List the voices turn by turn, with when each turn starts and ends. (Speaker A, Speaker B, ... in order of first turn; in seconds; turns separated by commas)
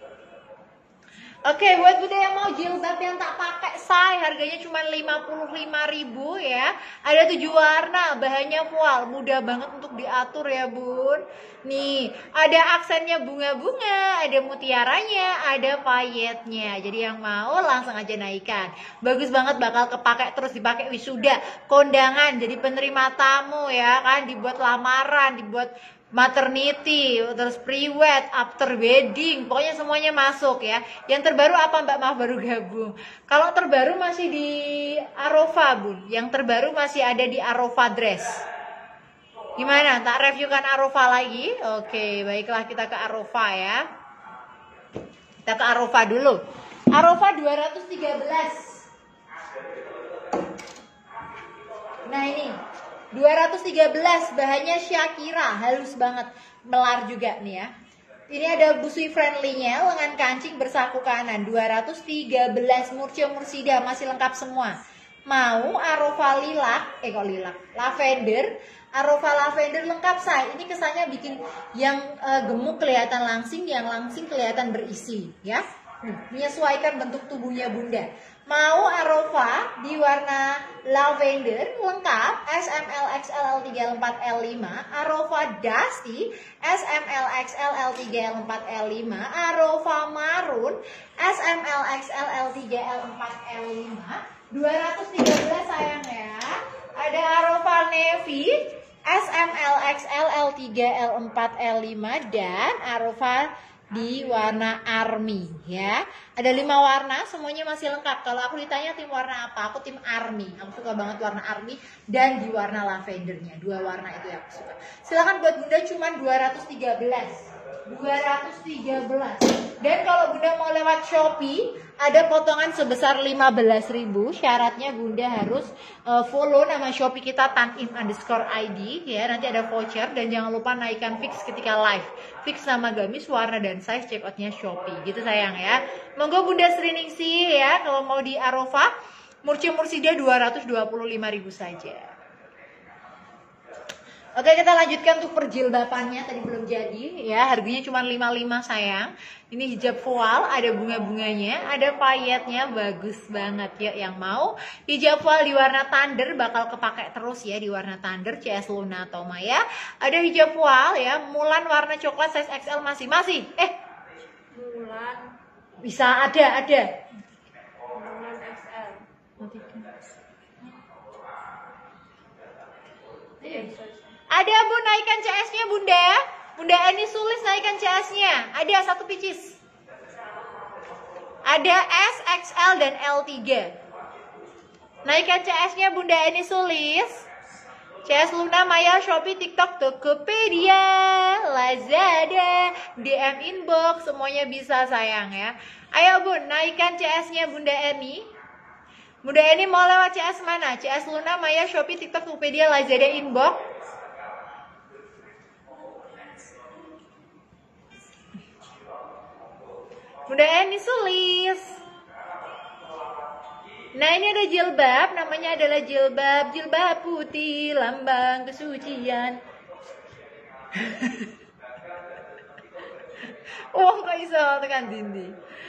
Speaker A: 1.4-38.4, Speaker A: 39.6-43.8, Speaker A: 45.4-46.4, Speaker A: 46.9-48.9, Speaker A: 52.0-52.6, Speaker A: 53.1-57.7, Speaker A: 58.3-138.9, Speaker B: 104.1-104.4, Speaker A: 139.4-142.1, Speaker A: 144.4-163.7, Speaker B: 164.5-165.3, Speaker A: 165.8-166.9, Speaker B: 167.9-169.1, Speaker A: 169.4-169.9, Speaker B: 173.4-174.2, Speaker A: 173.4-173.7, Speaker A: 174.3-179.6, Speaker B: 180.2-180.6, Speaker A: 181.4-183.8, Speaker A: 185.1-187.3, Speaker A: 188.1-198.2, Speaker A: 199.2-203.6, Speaker A: 210.3-211.8, Speaker A: 213.9-219.4, Speaker A: 220.8-221.3, Speaker A: 223.7-225.4